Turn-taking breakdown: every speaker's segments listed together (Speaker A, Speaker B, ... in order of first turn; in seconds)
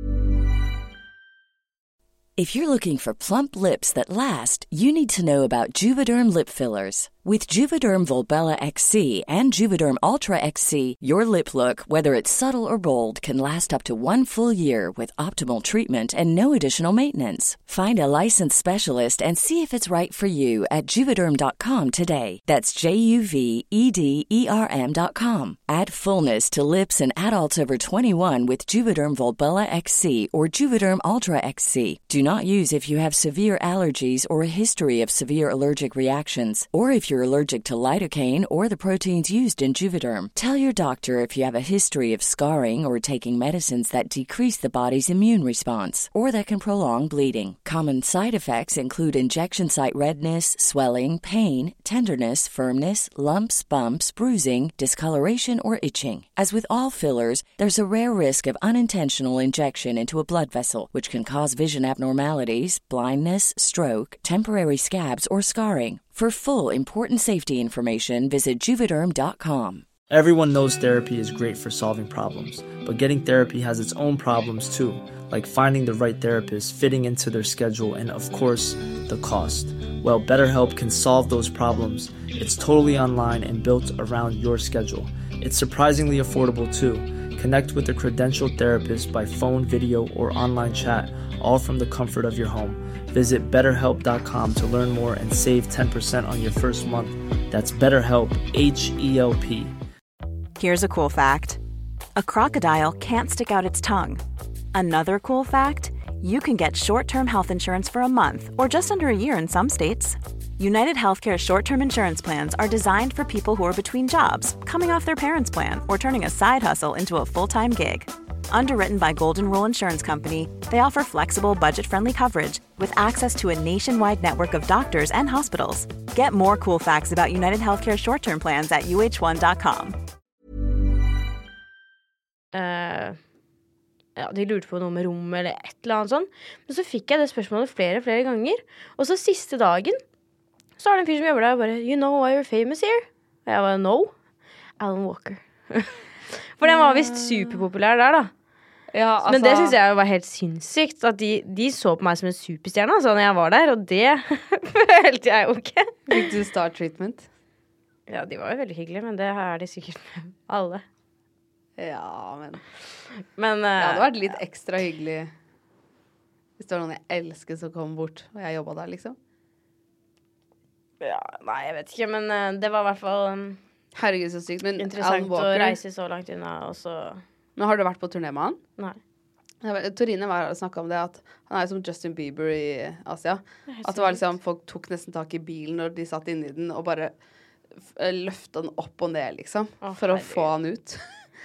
Speaker A: 2.4-69.8
Speaker B: 70.1-99.7
Speaker C: 100.5-101.6, 102.2-104.2, 104.7-130.0
Speaker D: 132.5-133.2, 134.2-140.0, 140.8-144.1, 144.8-148.3, 149.2-156.2, 158.1-160.8, 163.3-164.4, 171.0-173.6, 174.8-177.2, 183.7-184.3, 189.8-190.5
Speaker E: 146.6-147.6, 148.9-149.8, 156.1-157.3, 161.8-162.6, 163.8-165.3, 166.6-169.2, 173.9-175.8, 177.6-178.6, 179.6-187.2, 187.8-191.0